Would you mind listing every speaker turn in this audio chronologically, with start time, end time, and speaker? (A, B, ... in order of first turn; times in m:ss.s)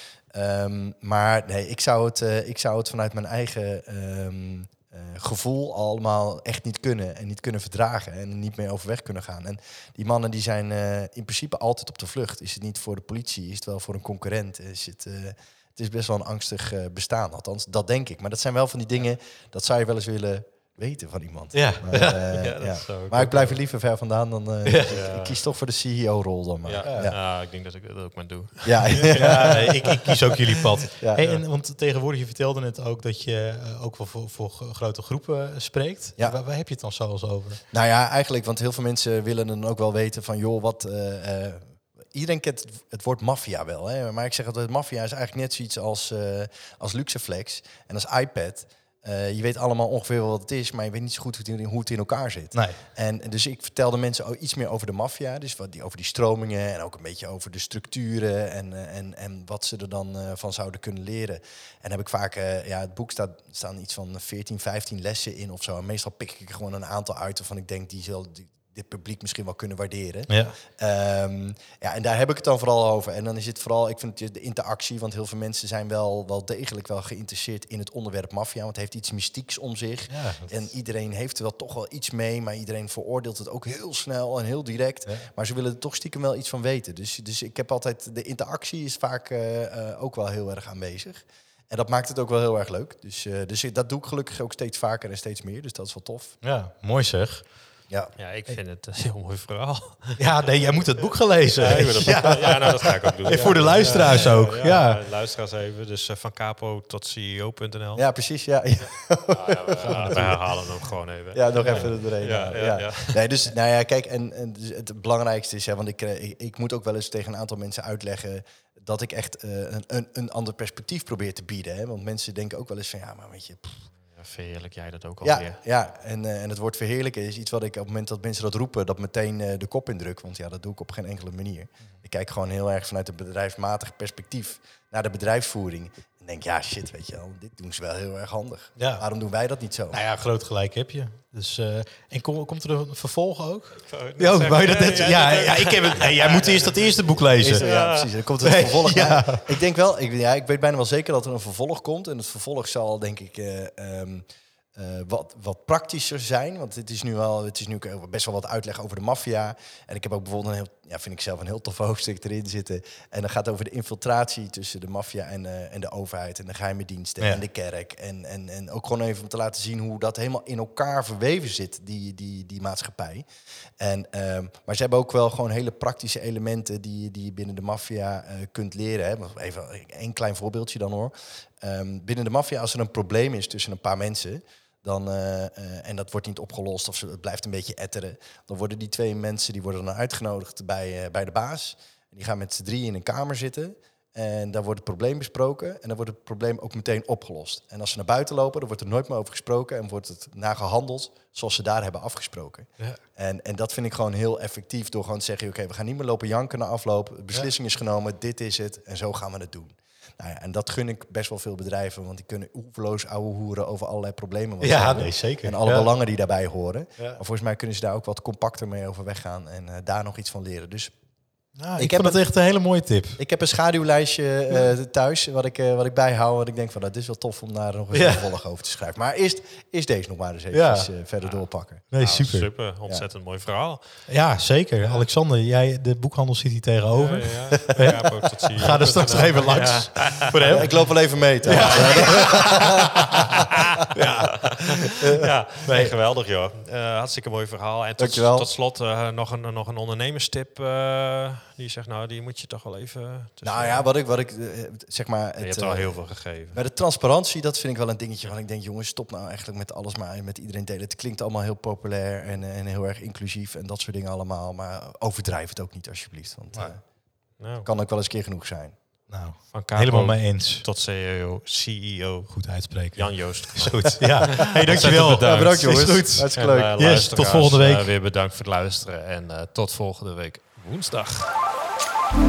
0:00.3-0:27.2 A
0:21.5-0:22.3 B
0:22.3-0:23.6 C
0:24.6-0:25.0 B
0:24.9-0:25.4 C
0:26.6-0:30.5 C
0:26.8-0:27.1 B
0:28.6-0:29.7 A
0:29.1-0:37.6 B
0:31.0-0:31.3 A
0:37.7-1:36.4 A
0:52.5-0:52.8 B
1:10.3-1:10.6 B
1:20.1-1:20.5 B
1:36.4-1:37.5 B
1:37.9-1:38.1 A
1:38.2-1:40.2 C
1:40.2-1:45.0 B
1:41.6-1:48.0 C
1:42.1-1:42.4 A
1:43.2-1:43.6 A
1:48.0-1:50.5 A
1:49.3-1:53.2 C
1:49.8-1:50.4 B
1:51.3-2:03.8 A
1:51.6-1:51.9 B
2:04.1-2:05.6 C
2:05.2-2:20.0 A
2:18.8-2:19.0 B
2:19.9-2:27.7 B
2:23.8-2:28.1 C
2:27.3-2:53.3 A
2:28.4-2:29.5 B
2:53.8-3:40.9 A
3:34.6-3:35.9 B
3:41.6-3:43.2 B
3:41.8-3:42.3 A
3:43.2-3:51.8 A
3:47.9-3:48.3 B
3:50.5-3:50.9 B
3:51.9-3:52.5 B
3:52.0-3:54.1 C
3:54.1-3:58.0 B
3:56.9-4:00.8 C
3:58.6-4:00.9 B
4:00.5-4:02.6 A
4:01.4-4:02.8 B
4:01.4-4:02.6 C
4:03.2-4:13.9 C
4:03.9-4:04.7 B
4:05.6-4:05.9 B
4:08.0-4:08.5 A
4:13.4-4:16.0 A
4:15.4-4:16.6 C
4:16.5-4:26.8 A
4:27.4-4:27.7 C
4:27.6-4:28.8 A
4:29.1-4:30.6 B
4:29.5-4:32.3 C
4:32.3-4:37.9 B
4:32.9-4:41.3 C
4:35.2-4:36.8 A